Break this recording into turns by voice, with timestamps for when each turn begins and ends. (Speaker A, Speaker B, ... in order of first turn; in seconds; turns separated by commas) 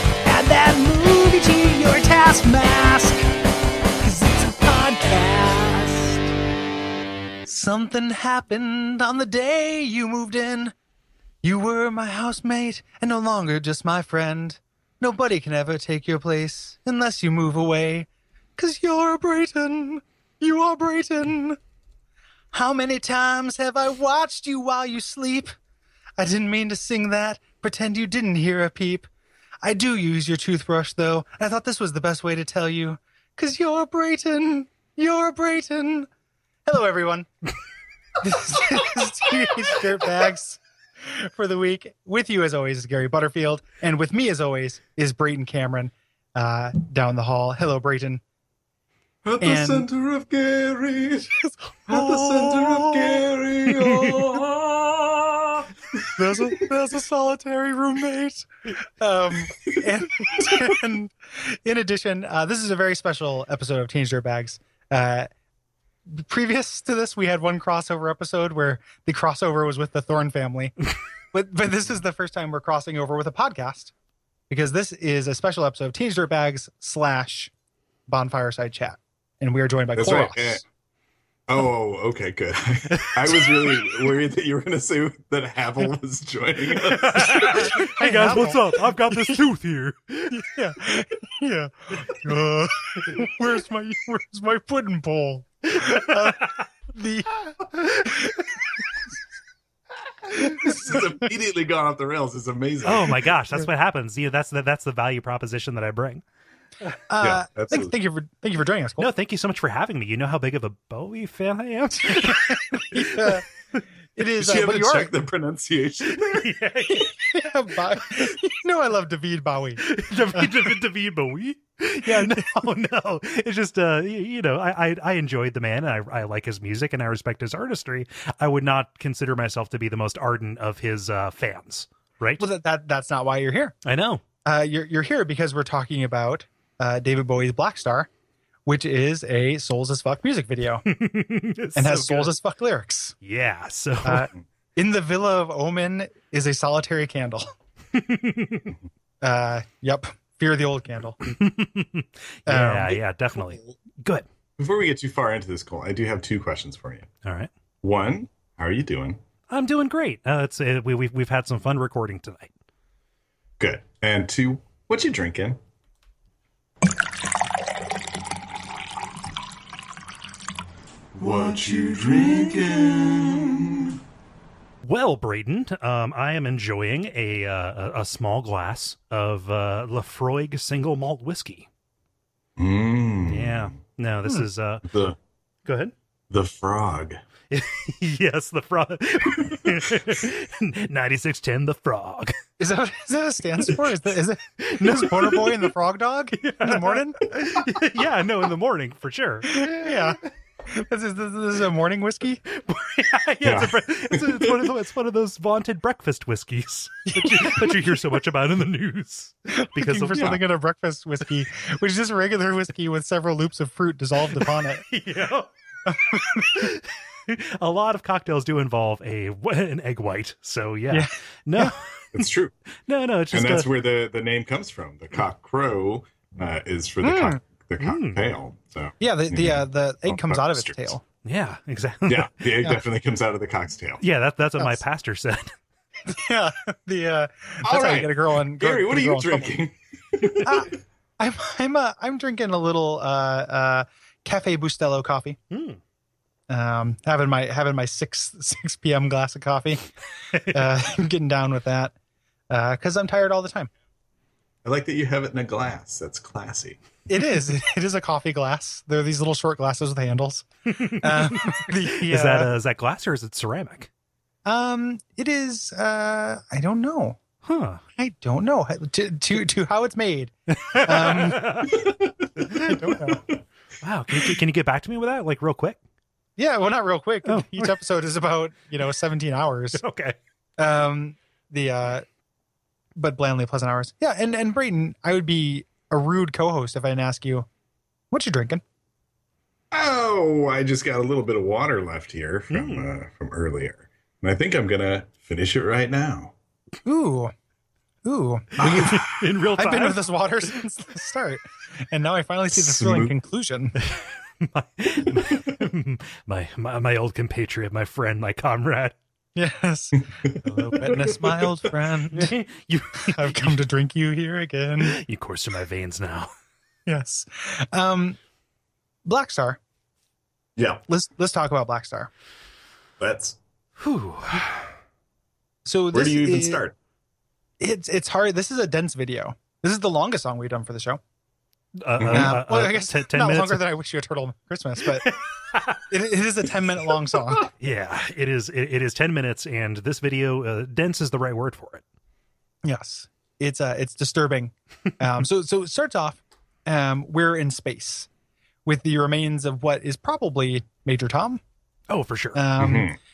Speaker A: 0.2-3.3, Speaker A: 4.0-6.3, Speaker A: 7.5-10.7, Speaker A: 11.4-21.6, Speaker A: 22.5-25.5, Speaker A: 26.2-29.1, Speaker A: 29.6-36.1, Speaker A: 36.7-37.3, Speaker A: 38.2-48.2, Speaker B: 49.2-51.4, Speaker A: 49.4-49.9, Speaker A: 51.7-53.2, Speaker B: 51.9-56.7, Speaker A: 56.1-65.3, Speaker A: 66.1-73.9, Speaker A: 74.5-77.5, Speaker A: 78.1-80.7, Speaker B: 80.0-80.6, Speaker B: 81.5-87.8, Speaker C: 86.9-90.5, Speaker A: 87.4-89.4, Speaker A: 90.3-98.6, Speaker C: 97.8-98.1, Speaker A: 100.4-101.1, Speaker B: 100.4-103.3, Speaker C: 102.8-106.2, Speaker A: 107.1-109.1, Speaker B: 107.2-108.0, Speaker C: 109.0-113.3, Speaker A: 112.1-113.5, Speaker A: 114.2-115.1, Speaker B: 114.4-116.5, Speaker C: 116.2-117.1, Speaker A: 117.3-119.8, Speaker C: 119.8-132.5, Speaker A: 120.3-120.7, Speaker A: 122.1-122.7, Speaker A: 132.4-133.8, Speaker C: 133.8-134.2, Speaker A: 134.4-138.1, Speaker A: 138.7-140.8, Speaker C: 140.9-142.3, Speaker A: 141.8-143.2, Speaker C: 143.2-144.3, Speaker A: 144.0-147.5, Speaker C: 147.9-148.7, Speaker A: 149.2-151.2, Speaker C: 151.2-154.3, Speaker A: 152.5-153.0, Speaker B: 154.6-157.1, Speaker C: 157.2-157.5, Speaker B: 157.8-159.2, Speaker C: 159.5-162.5, Speaker B: 163.6-165.6, Speaker B: 171.2-174.0, Speaker C: 174.8-181.7, Speaker B: 182.6-183.7, Speaker C: 183.3-184.9, Speaker B: 184.9-185.2, Speaker C: 185.7-185.9, Speaker B: 186.3-187.2, Speaker C: 187.5-192.4, Speaker A: 192.6-197.2, Speaker C: 194.7-195.7, Speaker C: 196.4-199.7, Speaker A: 199.5-202.4, Speaker C: 202.5-210.4, Speaker B: 203.4-204.7, Speaker A: 207.2-207.9, Speaker A: 209.5-214.9, Speaker C: 214.4-215.5, Speaker A: 215.9-216.7, Speaker C: 216.2-221.8, Speaker A: 220.9-221.7, Speaker B: 222.1-222.5, Speaker C: 222.9-223.7, Speaker B: 223.3-230.9, Speaker A: 227.0-227.4, Speaker C: 227.8-228.3, Speaker A: 229.0-231.0, Speaker C: 231.2-232.4, Speaker B: 232.1-234.0, Speaker C: 234.0-235.5, Speaker A: 236.1-239.5, Speaker B: 237.6-240.7, Speaker A: 240.4-245.4, Speaker C: 245.5-245.8, Speaker A: 246.5-249.8, Speaker A: 250.4-251.9, Speaker A: 252.5-253.7, Speaker B: 254.6-256.8, Speaker A: 257.1-262.5, Speaker C: 260.8-263.9, Speaker A: 264.4-267.2, Speaker C: 267.4-267.8, Speaker A: 268.0-271.7, Speaker C: 270.5-271.8, Speaker B: 271.7-272.5, Speaker A: 272.6-273.2, Speaker B: 273.1-273.4, Speaker C: 273.8-275.8, Speaker A: 276.4-279.8, Speaker C: 277.3-277.7, Speaker C: 279.8-280.2, Speaker A: 280.6-282.1, Speaker A: 283.0-287.5, Speaker A: 288.1-288.6, Speaker B: 289.7-296.3, Speaker C: 292.5-292.9, Speaker A: 296.9-297.3, Speaker A: 298.1-299.0, Speaker C: 298.6-300.0, Speaker B: 298.6-299.1, Speaker A: 299.6-303.8, Speaker B: 302.5-303.1, Speaker C: 303.9-309.0, Speaker A: 309.4-312.3, Speaker B: 310.9-311.5, Speaker C: 312.1-313.6, Speaker A: 313.1-315.0, Speaker C: 314.8-316.3, Speaker A: 316.9-318.2, Speaker A: 319.1-319.6, Speaker B: 320.6-320.8, Speaker A: 320.9-322.1, Speaker B: 323.0-323.4, Speaker C: 323.8-324.6, Speaker A: 325.7-326.6, Speaker B: 325.9-326.8, Speaker A: 327.6-331.0, Speaker C: 331.8-333.6, Speaker B: 332.0-332.4, Speaker A: 332.1-335.1, Speaker C: 335.1-335.8, Speaker A: 335.9-337.5, Speaker C: 337.5-341.8, Speaker A: 342.6-348.1, Speaker A: 348.7-351.4, Speaker C: 351.9-352.4, Speaker A: 352.4-352.9, Speaker B: 352.6-353.0